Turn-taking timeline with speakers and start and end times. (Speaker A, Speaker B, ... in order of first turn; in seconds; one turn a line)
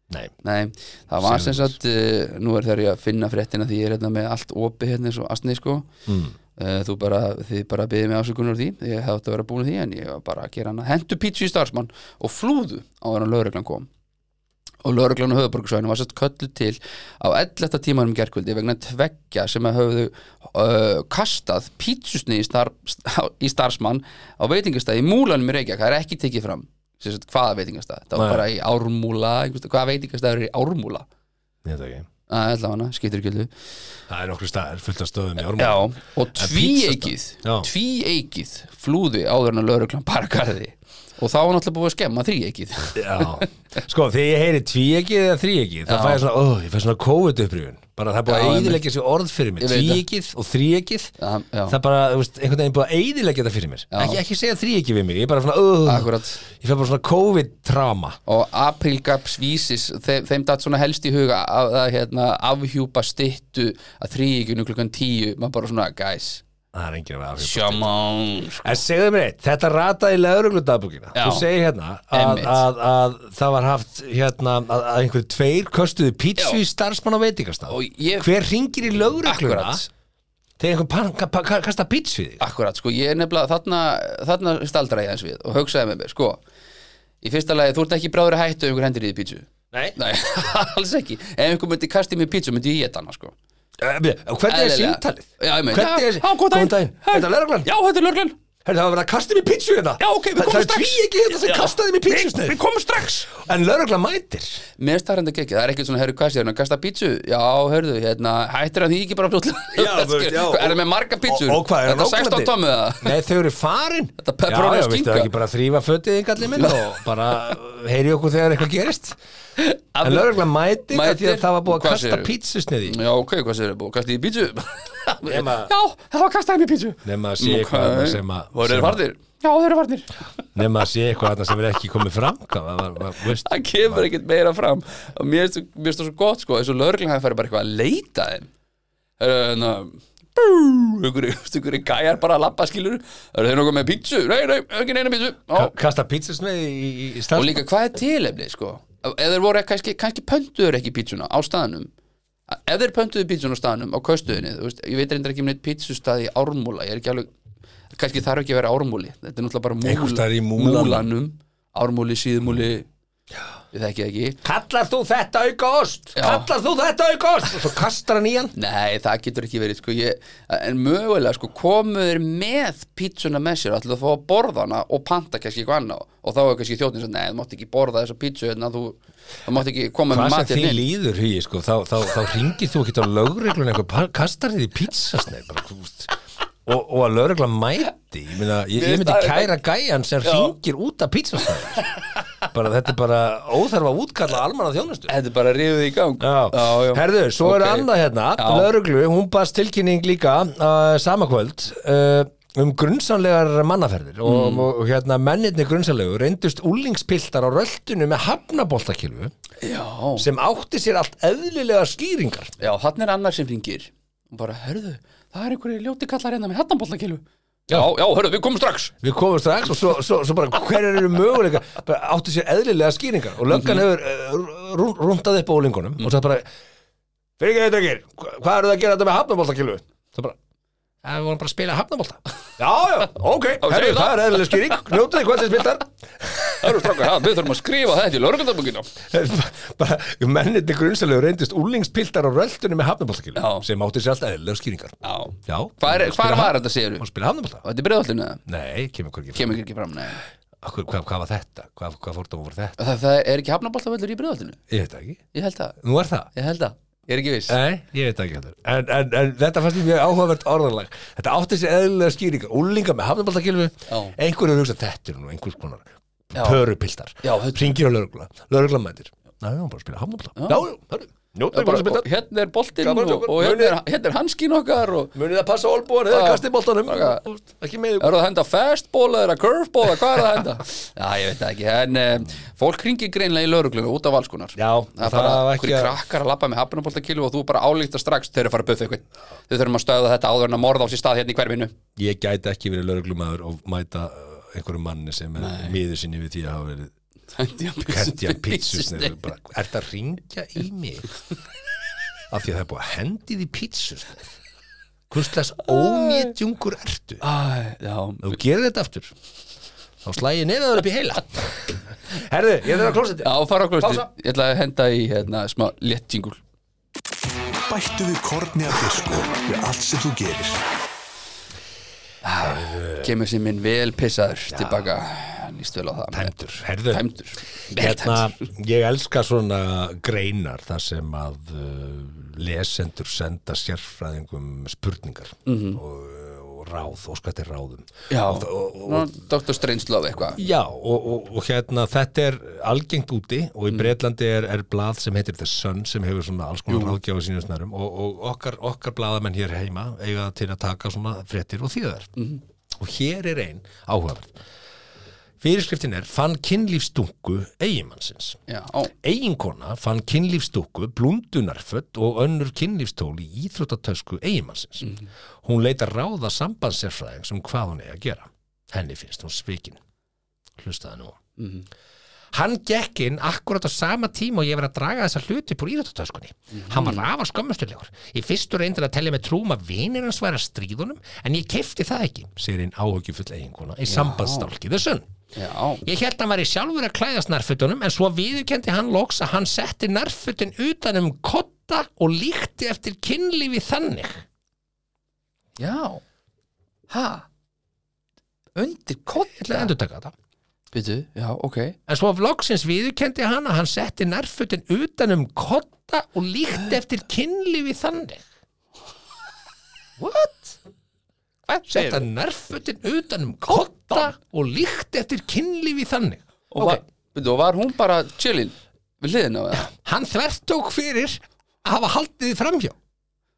Speaker A: 0.4-5.9
Speaker B: 1.2-1.8
Speaker B: 6.1-6.3
Speaker A: 6.5-13.9
Speaker A: 14.8-31.1
Speaker B: 28.1-28.4
Speaker B: 31.6-32.1
Speaker A: 32.3-33.5
Speaker B: 34.1-37.7
Speaker A: 35.5-43.5
Speaker B: 43.0-51.1
Speaker A: 45.9-46.2
Speaker A: 48.2-48.8
Speaker A: 49.6-50.0
Speaker A: 51.2-51.8
Speaker B: 51.7-58.2
Speaker A: 53.9-54.2
Speaker A: 55.8-56.5
Speaker A: 58.2-66.4
Speaker B: 66.7-67.9
Speaker A: 67.4-68.8
Speaker B: 68.6-79.8
Speaker A: 71.1-71.5
Speaker A: 72.1-72.6
Speaker A: 77.7-78.3
Speaker A: 79.2-79.9
Speaker B: 80.6-82.4
Speaker A: 82.4-86.4
Speaker A: 87.2-93.3
Speaker B: 89.7-90.0
Speaker B: 93.8-97.7
Speaker A: 94.5-98.3
Speaker B: 98.6-102.6
Speaker A: 100.0-103.3
Speaker B: 103.3-104.6
Speaker A: 104.8-113.1
Speaker B: 109.7-119.2
Speaker A: 114.2-115.3
Speaker A: 116.5-116.9
Speaker A: 119.6-122.3
Speaker B: 120.0-123.0
Speaker A: 122.8-130.3
Speaker B: 125.2-125.7
Speaker B: 127.0-129.0
Speaker B: 130.5-134.1
Speaker A: 133.2-138.5
Speaker A: 139.2-145.7
Speaker B: 145.5-147.6
Speaker A: 147.3-151.9
Speaker A: 152.5-157.3
Speaker A: 157.9-162.9
Speaker B: 159.8-161.1
Speaker A: 163.7-164.4
Speaker B: 164.4-168.5
Speaker A: 166.2-166.5
Speaker A: 168.5-180.8
Speaker B: 180.1-186.1
Speaker B: 186.6-191.9
Speaker A: 188.7-189.5
Speaker A: 190.2-190.5
Speaker A: 191.8-192.1
Speaker B: 192.4-195.1
Speaker A: 195.1-198.7
Speaker B: 196.2-209.3
Speaker A: 204.2-204.7
Speaker A: 209.6-210.2
Speaker B: 210.2-212.5
Speaker A: 212.6-218.9
Speaker B: 219.0-226.5
Speaker A: 223.5-223.8
Speaker B: 227.4-230.4
Speaker B: 231.0-237.1
Speaker A: 233.6-234.7
Speaker A: 236.6-238.9
Speaker B: 239.0-247.6
Speaker A: 243.3-243.7
Speaker A: 245.0-247.1
Speaker A: 247.6-248.4
Speaker B: 248.4-249.6
Speaker A: 249.3-250.2
Speaker B: 250.6-252.8
Speaker A: 252.8-254.6
Speaker B: 254.7-255.2
Speaker A: 255.3-255.8
Speaker B: 255.8-256.3
Speaker A: 256.3-257.6
Speaker B: 257.5-272.1
Speaker A: 263.9-264.1
Speaker A: 266.3-266.6
Speaker A: 267.2-267.8
Speaker A: 270.4-270.6
Speaker A: 271.5-275.1
Speaker B: 272.8-273.8
Speaker B: 275.1-278.1
Speaker A: 276.1-277.2
Speaker A: 278.0-291.7
Speaker B: 284.6-286.0
Speaker B: 292.0-296.9
Speaker A: 295.4-295.8
Speaker A: 297.4-299.2
Speaker B: 297.8-301.1
Speaker B: 302.3-304.3
Speaker B: 305.1-307.2
Speaker A: 305.7-306.3
Speaker A: 307.2-308.4
Speaker B: 308.2-309.1
Speaker B: 310.0-314.1
Speaker A: 313.2-316.4
Speaker C: 317.7-320.6
Speaker A: 322.2-326.3
Speaker B: 322.4-323.1
Speaker B: 324.5-324.8
Speaker B: 326.1-327.0
Speaker A: 326.9-328.3
Speaker B: 327.6-339.1
Speaker A: 335.4-335.8
Speaker A: 338.1-340.4
Speaker B: 340.4-352.1
Speaker A: 346.7-347.0
Speaker B: 352.8-354.4
Speaker B: 355.4-358.4
Speaker A: 358.5-358.9
Speaker B: 359.0-369.8
Speaker B: 370.6-371.2
Speaker A: 371.4-371.6
Speaker B: 372.3-385.1
Speaker A: 376.5-377.1
Speaker A: 383.9-384.5
Speaker A: 385.3-385.8
Speaker B: 385.8-394.2
Speaker A: 395.6-396.0
Speaker A: 396.9-397.2
Speaker A: 398.6-399.7
Speaker B: 399.4-400.1
Speaker A: 400.7-401.8
Speaker B: 401.9-408.2
Speaker B: 410.0-410.6
Speaker A: 411.5-412.0
Speaker B: 411.7-416.8
Speaker A: 413.5-414.0
Speaker A: 416.5-419.7
Speaker B: 419.5-422.8